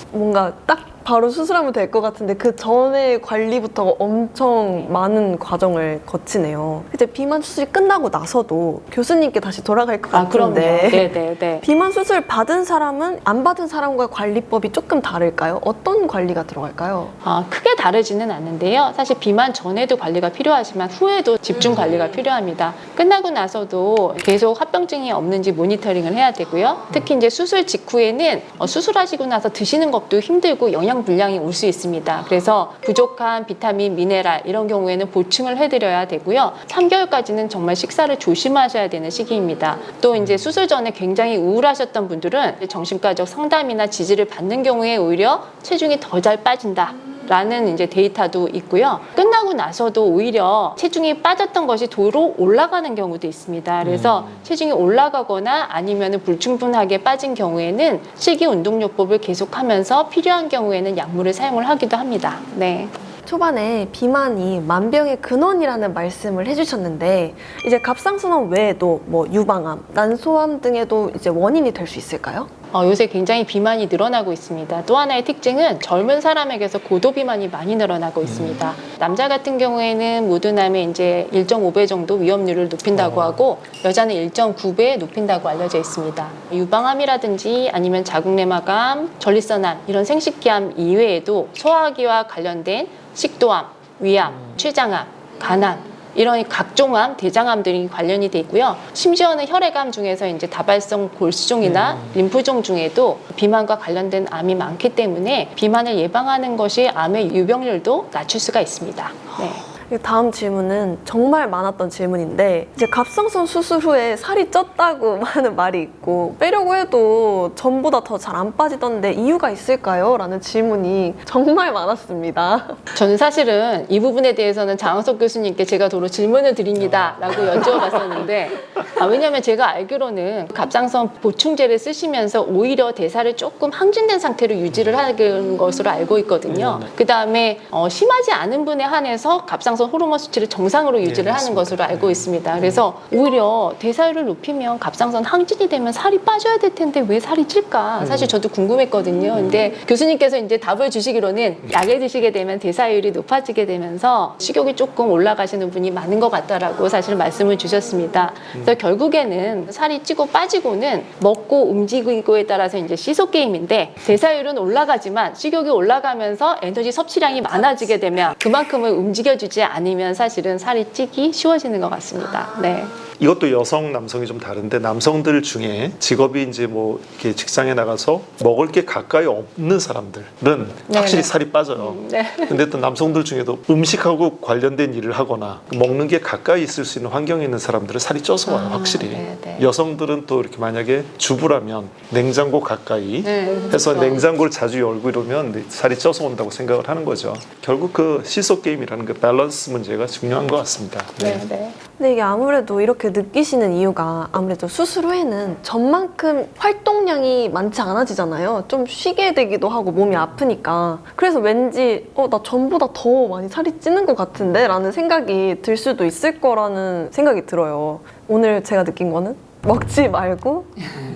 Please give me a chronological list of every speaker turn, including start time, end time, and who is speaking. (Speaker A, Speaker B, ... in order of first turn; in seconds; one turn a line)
Speaker A: 0.1-11.1
Speaker B: 10.1-11.6
Speaker A: 11.6-17.1
Speaker B: 17.2-62.9
Speaker C: 53.8-54.4
Speaker A: 63.2-72.5
Speaker B: 72.7-109.6
Speaker C: 78.2-78.6
Speaker C: 82.9-83.4
Speaker C: 101.7-102.1
Speaker A: 109.7-122.8
Speaker B: 122.9-172.9
Speaker C: 126.9-127.6
Speaker C: 136.5-136.9
Speaker C: 141.0-142.8
Speaker C: 148.0-148.3
Speaker C: 173.2-201.4
Speaker B: 180.9-182.6
Speaker B: 188.5-189.7
Speaker B: 193.2-194.2
Speaker B: 201.2-201.8
Speaker A: 202.0-220.7